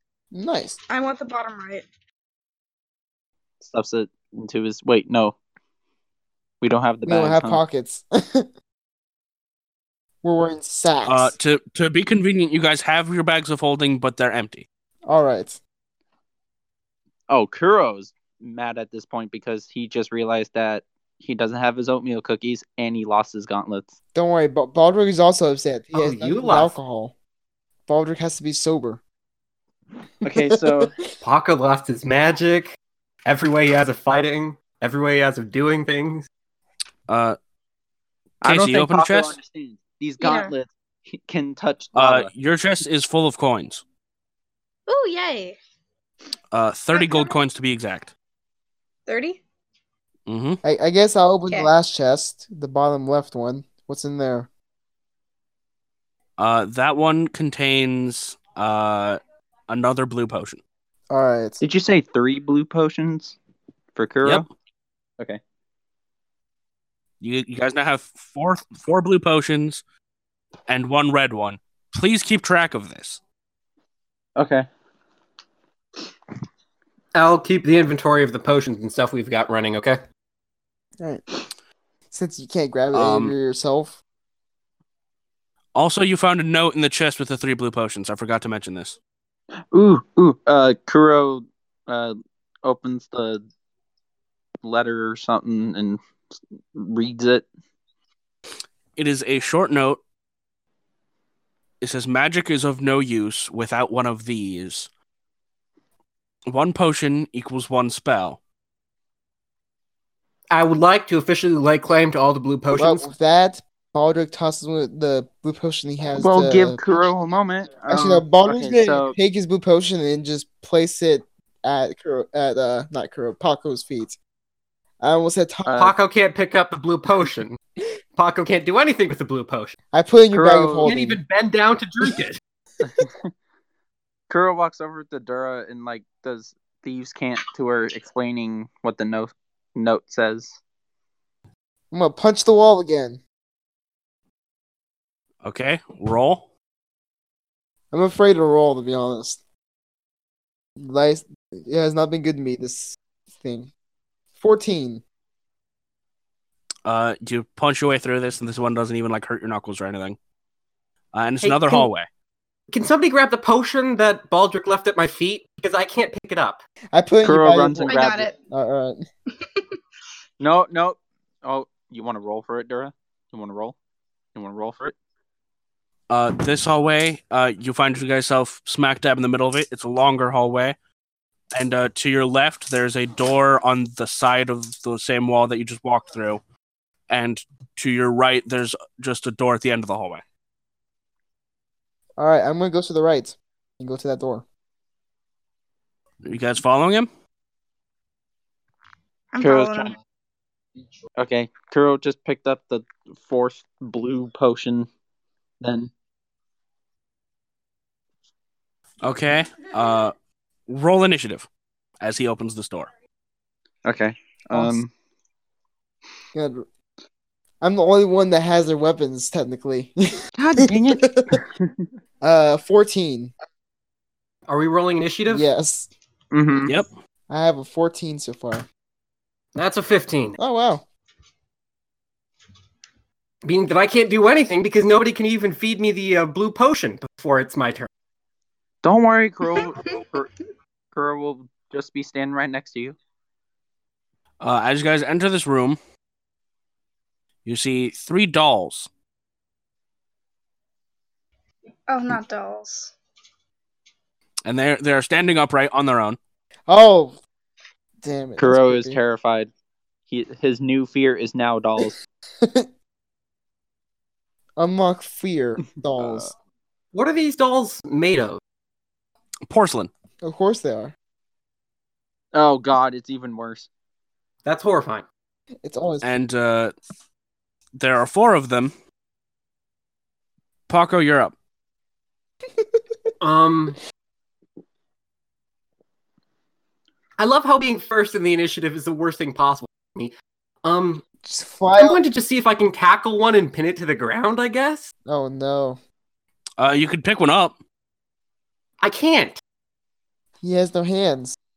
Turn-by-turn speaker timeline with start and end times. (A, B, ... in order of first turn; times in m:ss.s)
0:00.3-0:00.8 A
0:00.9-0:01.9 B
0:03.6-0:05.4 C
0:06.6-0:07.6 C
0:07.0-0:08.5 A
0:10.2-0:11.4 A
0:11.0-0:14.7 D
0:15.0-0:15.6 A
0:17.3-0:23.9 C
0:24.1-0:27.2 A
0:25.9-0:26.8 E
0:27.9-0:29.0 A
0:30.2-0:30.9 C
0:30.3-0:31.1 A
0:31.2-0:36.3 E
0:37.1-0:37.4 D
0:38.4-0:42.3 C
0:38.4-0:39.4 D
0:40.2-0:40.5 B
0:42.0-0:43.8 D
0:44.9-0:45.6 B
0:46.5-0:48.1 D
0:46.9-0:47.3 B
0:49.1-0:49.4 B
0:50.3-0:50.6 D
0:50.6-0:54.5 A
0:56.4-1:00.6 D
1:01.1-1:01.6 A
1:01.6-1:03.4 C
1:04.0-1:04.5 C
1:07.2-1:09.8 D
1:10.7-1:13.2 D
1:14.4-1:14.7 C
1:17.2-1:20.0 E
1:22.1-1:24.0 A
1:22.9-1:23.3 D
1:25.8-1:29.0 D
1:29.7-1:33.4 C
1:34.6-1:36.0 C
1:36.7-1:37.5 C
1:39.0-1:40.0 D
1:41.8-1:44.9 D
1:46.5-1:48.4 D
1:50.5-1:53.1 E
1:52.7-1:56.8 A
1:56.2-1:59.2 C
1:57.9-2:04.2 A
2:05.0-2:05.8 A
2:05.7-2:06.0 C
2:05.8-2:07.6 E
2:08.2-2:09.8 E
2:09.9-2:11.2 A
2:10.3-2:10.9 C
2:10.8-2:12.4 E
2:12.8-2:13.3 C
2:14.3-2:20.6 C
2:21.9-2:23.2 A
2:25.4-2:26.4 D
2:27.9-2:29.4 A
2:30.8-2:33.7 A
2:34.4-2:35.0 A
2:36.8-2:40.2 D
2:41.1-2:42.1 D
2:41.4-2:41.9 E
2:42.7-2:46.6 E
2:46.9-2:49.0 A
2:47.2-2:48.3 C
2:47.8-2:48.4 B
2:50.4-2:53.8 C
2:54.4-2:55.0 C
2:56.1-3:00.8 D
3:01.5-3:06.4 D
3:07.1-3:10.2 D
3:12.2-3:14.4 A
3:16.2-3:17.1 D
3:19.3-3:20.0 B
3:19.4-3:20.0 C
3:21.2-3:24.9 C
3:25.6-3:25.9 C
3:29.0-3:30.1 D
3:30.7-3:31.5 D
3:32.0-3:32.9 D
3:33.8-3:34.9 C
3:34.5-3:34.8 A
3:36.3-3:36.7 A
3:37.6-3:41.4 A
3:40.4-3:41.9 C
3:42.2-3:43.3 A
3:44.5-3:45.4 E
3:45.3-3:45.9 A
3:46.3-3:46.7 C
3:47.3-3:48.7 A
3:49.6-3:50.4 E
3:50.4-3:50.9 A
3:53.4-3:57.9 E
3:58.8-4:00.3 C
4:00.9-4:03.0 C
4:04.4-4:05.8 D
4:07.4-4:08.9 D
4:11.9-4:13.0 B
4:14.5-4:16.2 D
4:16.7-4:17.2 A
4:18.0-4:19.0 A
4:18.4-4:19.5 C
4:20.1-4:22.0 C
4:22.4-4:22.7 A
4:24.6-4:26.3 A
4:26.0-4:26.3 C
4:26.9-4:28.4 E
4:29.5-4:29.9 D
4:30.2-4:31.0 A
4:32.3-4:33.7 C
4:34.4-4:35.1 E
4:35.6-4:36.1 A
4:36.0-4:36.7 D
4:37.8-4:38.7 D
4:40.7-4:41.3 D
4:43.2-4:43.8 E
4:47.2-4:51.0 E
4:51.2-4:52.0 A
4:51.8-4:54.9 E
4:55.1-4:55.8 A
4:56.6-4:57.6 D
4:58.8-4:59.4 E
5:00.4-5:01.4 A